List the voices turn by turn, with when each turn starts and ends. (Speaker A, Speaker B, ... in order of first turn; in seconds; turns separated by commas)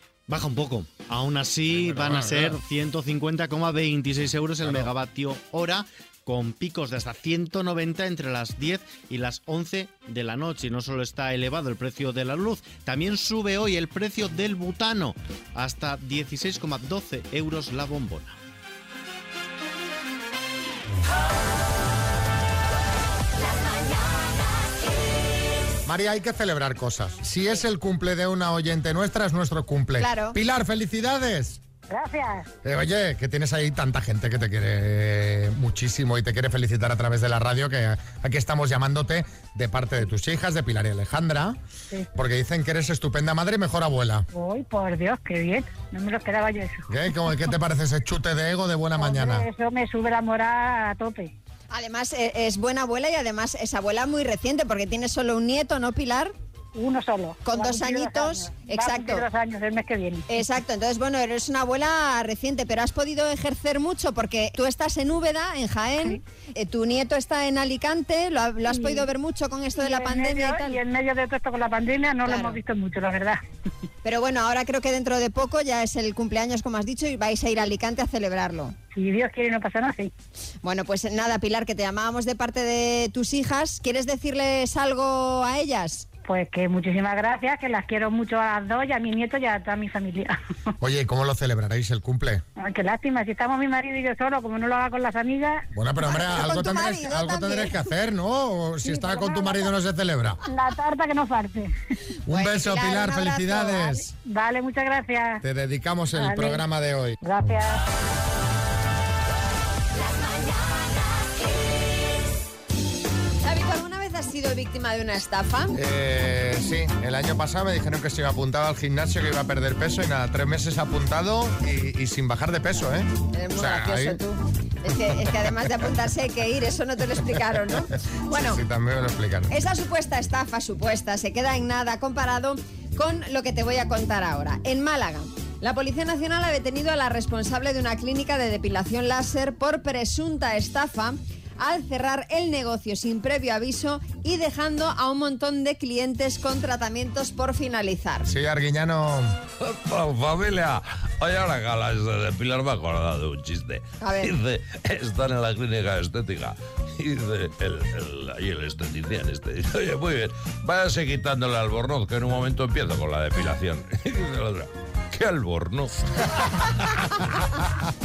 Speaker A: 0.3-18.4, Speaker B: 1.8-2.6, Speaker B: 4.6-4.9, Speaker B: 25.9-31.6, Speaker C: 30.0-30.4, Speaker D: 31.9-32.5, Speaker B: 32.6-41.6, Speaker B: 42.1-44.2, Speaker D: 44.3-46.9, Speaker B: 46.9-49.4, Speaker D: 49.0-51.3, Speaker C: 51.7-56.3, Speaker D: 56.7-60.4, Speaker C: 57.4-59.2, Speaker C: 60.3-70.8, Speaker D: 68.7-69.1, Speaker D: 69.8-73.4, Speaker C: 72.2-72.6, Speaker C: 74.0-78.7, Speaker D: 78.9-80.1, Speaker C: 80.6-86.1, Speaker D: 86.3-90.3, Speaker B: 90.8-92.4, Speaker D: 92.6-95.6, Speaker B: 95.7-100.4, Speaker C: 96.0-97.9, Speaker D: 98.8-99.7, Speaker D: 100.4-101.7, Speaker C: 102.3-103.9, Speaker B: 102.3-104.1, Speaker D: 104.1-105.4, Speaker B: 105.4-107.2, Speaker D: 106.2-106.6, Speaker D: 107.2-107.8, Speaker C: 113.4-115.7, Speaker B: 115.7-124.2, Speaker C: 123.3-128.6, Speaker B: 128.3-129.5, Speaker C: 129.5-148.3, Speaker B: 148.3-149.3, Speaker E: 149.6-167.4, Speaker C: 154.0-154.3